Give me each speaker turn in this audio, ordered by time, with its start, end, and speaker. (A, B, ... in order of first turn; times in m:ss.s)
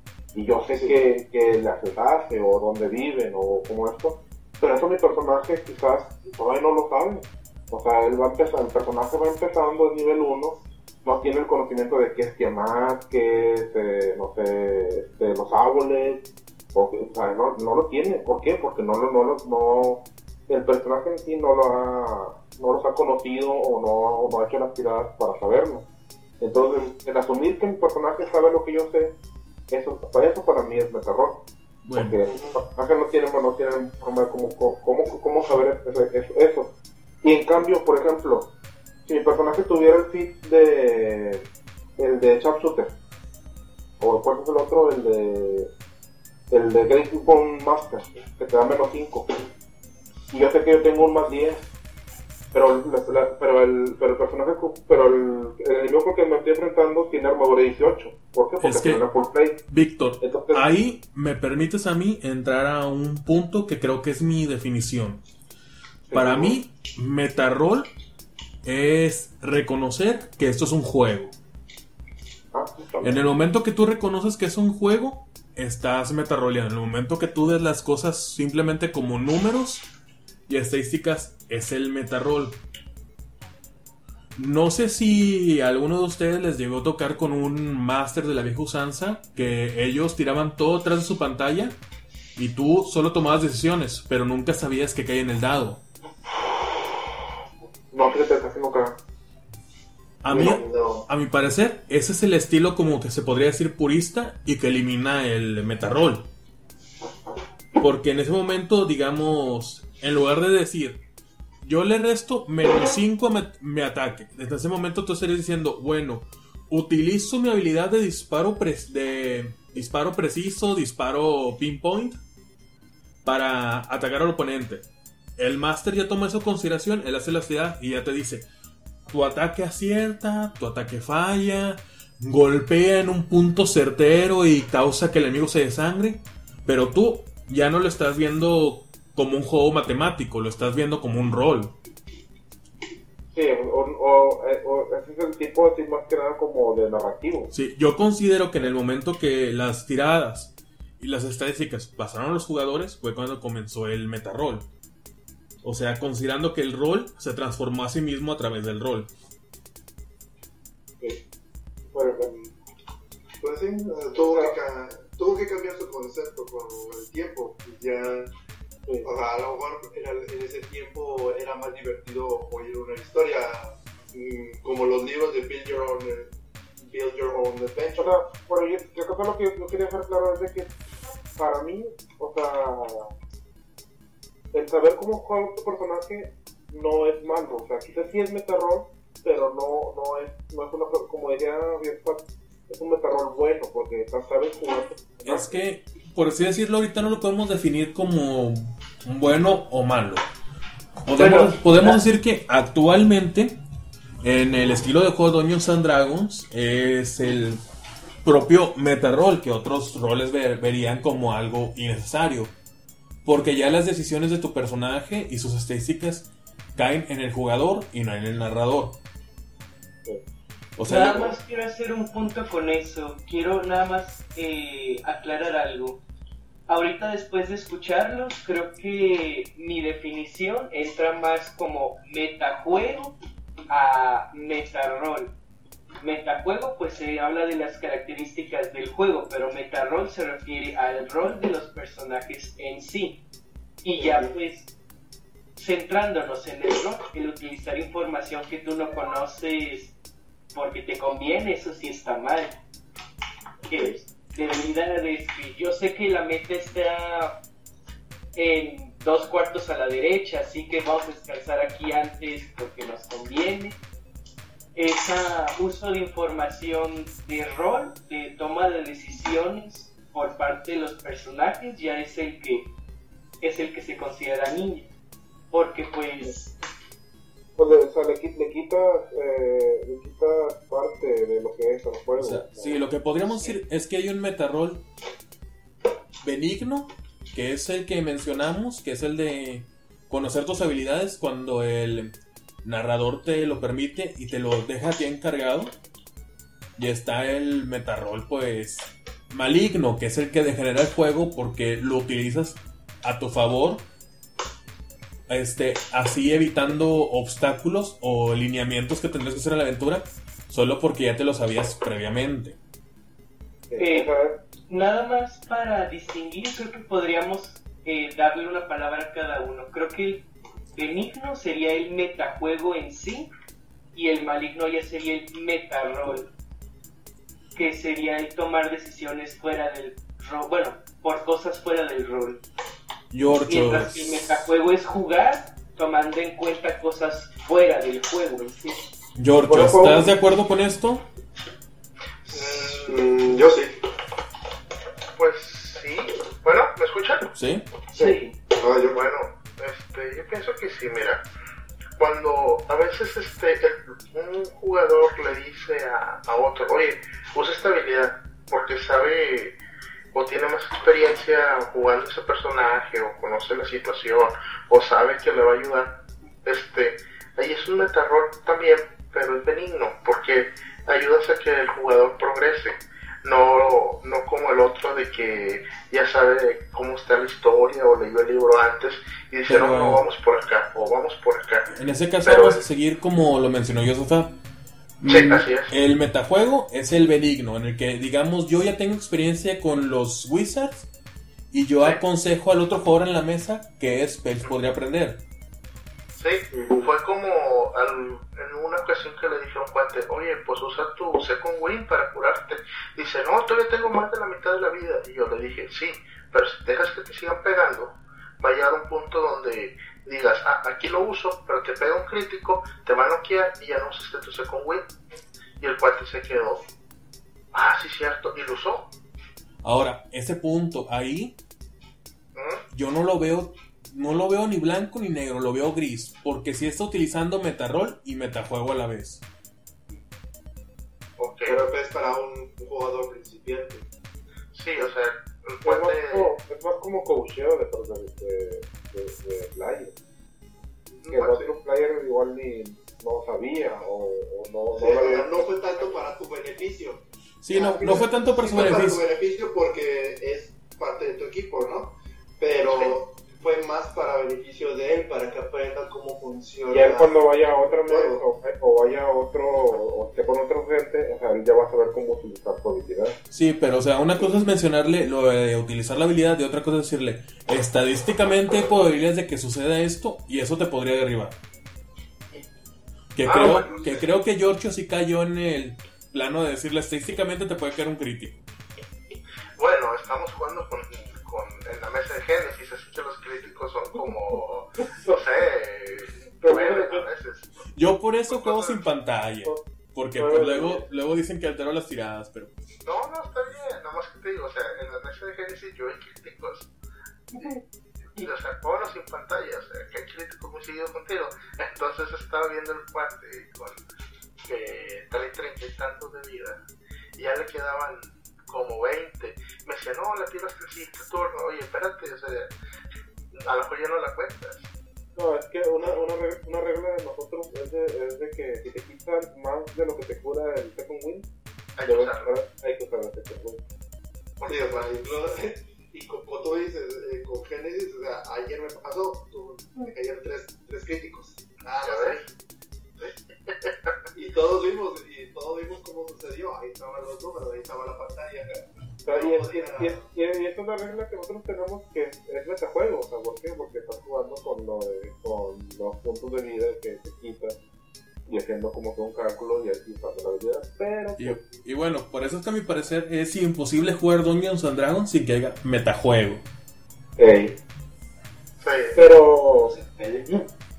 0:00.3-0:25.9 A
0:00.7-0:01.0 B
0:26.4-0:29.1 A
0:29.7-0:31.4 A
0:31.8-0:32.2 C
0:31.9-0:36.7 A
0:32.2-0:32.6 B
0:37.2-0:38.5 A
0:39.1-0:41.5 A
0:42.0-0:42.9 A
0:44.0-0:45.7 A
0:46.5-0:49.4 A
0:50.3-0:51.6 A
0:52.5-0:59.6 A
0:58.6-0:59.0 C
0:59.7-1:05.2 C
1:00.2-1:00.6 A
1:06.1-1:06.6 A
1:06.1-1:07.9 C
1:08.6-1:11.3 C
1:12.5-1:13.2 A
1:13.0-1:19.8 C
1:20.5-1:22.6 C
1:24.4-1:31.8 C
1:32.4-1:35.8 C
1:37.9-1:39.0 A
1:40.2-1:46.3 C
1:40.3-1:40.7 A
1:40.3-1:41.0 B
1:47.8-1:51.0 C
1:51.6-2:02.2 C
2:03.2-2:04.8 C
2:05.4-2:08.5 C
2:09.1-2:21.8 C
2:23.3-2:27.5 A
2:27.5-2:34.7 C
2:35.6-2:39.1 C
2:41.9-2:42.5 A
2:43.4-2:48.3 B
2:44.3-2:44.6 A
2:49.0-2:58.1 B
2:58.0-3:00.7 A
3:01.4-3:03.1 A
3:04.5-3:15.6 A
3:15.2-3:20.2 C
3:21.1-3:23.6 C
3:21.2-3:22.0 D
3:24.2-3:27.6 C
3:28.2-3:32.5 C
3:33.2-3:39.0 C
3:40.8-3:41.3 C
3:40.9-3:46.0 D
3:46.7-3:53.2 D
3:53.7-3:55.3 D
3:56.0-4:03.2 D
4:03.8-4:04.7 D
4:04.0-4:04.4 B
4:05.6-4:10.0 D
4:10.5-4:12.6 D
4:13.7-4:17.4 D
4:18.4-4:23.8 D
4:24.8-4:32.7 D
4:33.4-4:34.9 D
4:35.5-4:36.6 D
4:37.6-4:42.8 A
4:42.2-4:44.8 C
4:46.2-4:52.1 C
4:52.6-4:55.7 C
4:56.8-5:03.8 C
5:05.3-5:12.6 C
5:13.7-5:14.4 A
5:13.8-5:14.1 D
5:14.7-5:23.3 D
5:23.9-5:26.3 D
5:27.6-5:32.4 D
5:33.1-5:34.1 C
5:33.5-5:38.8 D
5:39.2-5:41.1 C
5:39.5-5:40.1 A
5:42.3-5:43.8 B
5:42.3-5:43.0 E
5:45.2-5:47.3 E
5:47.3-5:47.6 C
5:47.9-5:48.4 D
5:48.0-5:49.0 B
5:48.9-5:51.2 E
5:52.0-5:59.6 E
6:00.1-6:05.9 E
6:06.4-6:21.7 E
6:19.5-6:20.0 C
6:21.7-6:24.4 C
6:22.2-6:22.6 E
6:25.0-6:30.9 C
6:25.0-6:25.7 E
6:31.5-6:35.2 C
6:36.2-6:54.8 E
6:55.6-6:56.6 E
6:57.5-6:58.9 E
6:59.6-7:01.4 C
7:02.3-7:02.6 E
7:02.7-7:09.2 C
7:11.2-7:11.6 E
7:11.5-7:13.9 B
7:14.5-7:16.3 E
7:15.6-7:20.0 A
7:21.0-7:21.5 E
7:21.1-7:25.5 A
7:24.7-7:37.2 B
7:27.4-7:29.0 C
7:32.6-7:33.0 E
7:36.7-7:43.2 A
7:37.9-7:38.2 B
7:43.3-7:51.4 C
7:53.2-7:58.4 C
7:53.3-7:54.0 E
7:59.6-8:07.5 E
8:06.4-8:07.0 A
8:07.7-8:12.5 C
8:08.3-8:08.8 E
8:10.2-8:10.8 A
8:12.8-8:16.7 E
8:18.1-8:23.8 E
8:24.4-8:26.6 E
8:27.2-8:32.5 E
8:33.3-8:34.7 E
8:35.2-8:41.3 A
8:41.8-8:42.3 E
8:41.8-8:43.6 A
8:44.4-8:45.0 E
8:44.4-8:52.3 B
8:51.8-8:52.2 E
8:53.0-8:54.1 E
8:54.1-9:00.0 B
8:59.0-9:07.6 A
9:08.3-9:11.4 A
9:11.2-9:16.4 C
9:17.2-9:17.6 A
9:18.6-9:19.0 E
9:19.0-9:19.8 A
9:19.7-9:20.4 D